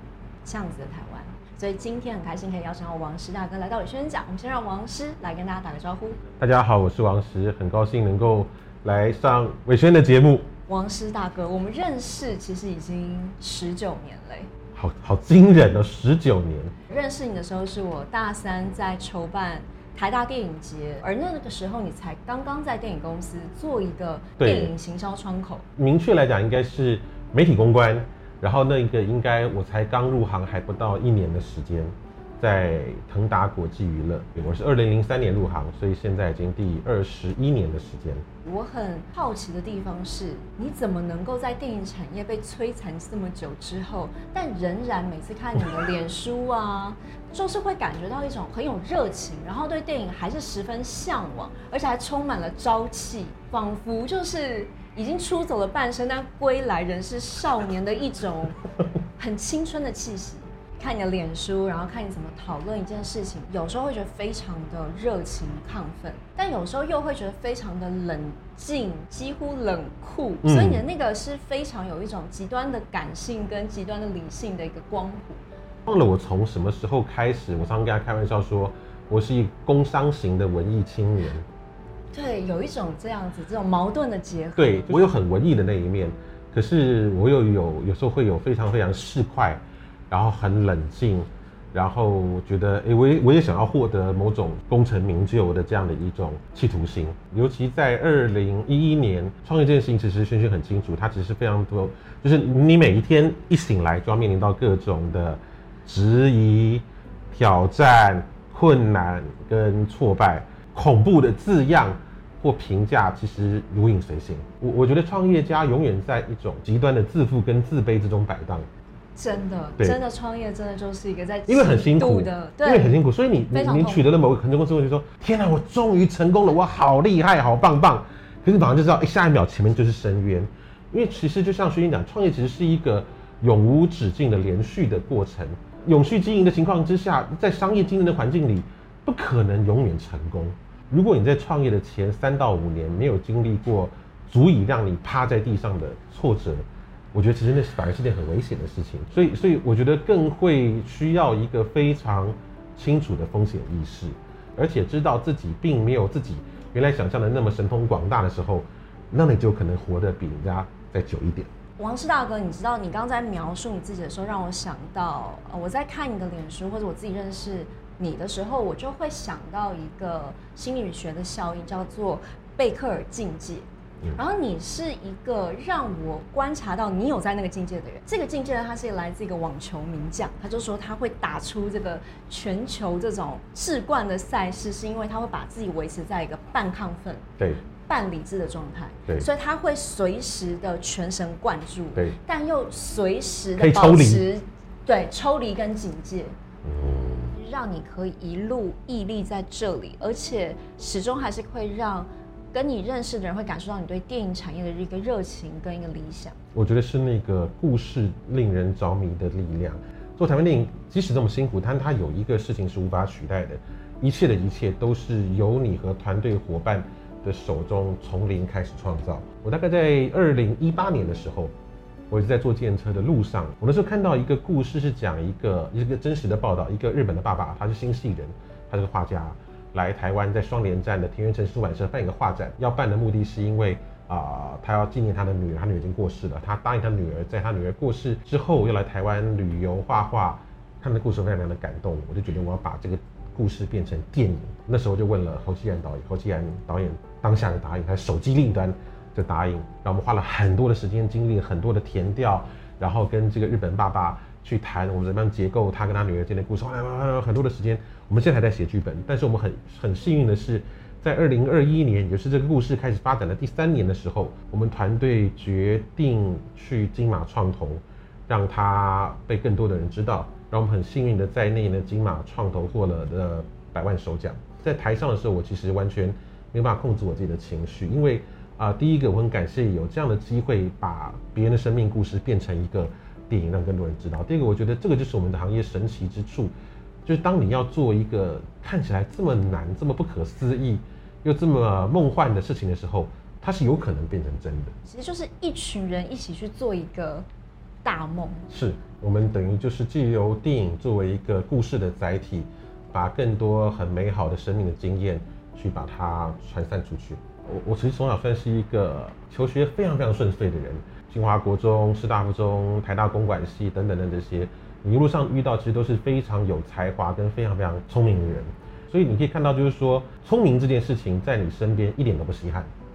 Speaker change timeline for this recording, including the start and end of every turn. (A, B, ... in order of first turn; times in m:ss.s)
0:00.4-0:06.2 A
0:06.4-0:10.5 B
0:10.7-0:14.5 A
0:14.7-0:16.7 B
0:16.9-0:25.6 A
0:24.4-0:24.7 B
0:25.8-0:38.2 B
0:38.4-0:58.6 A
0:59.2-1:15.4 A
1:10.4-1:10.8 B
1:15.9-1:21.5 B
1:22.1-1:25.1 A
1:24.6-1:58.7 B
1:59.2-2:03.0 A
2:01.5-2:41.5 B
2:03.5-2:04.1 A
2:41.8-3:16.3 A
3:13.6-3:14.2 B
3:16.6-3:17.3 B
3:17.3-3:26.4 A
3:26.5-3:41.5 B
3:42.1-4:46.5 B
4:47.0-4:54.7 B
4:54.8-4:57.2 A
4:57.8-4:58.5 A
4:58.5-5:22.7 B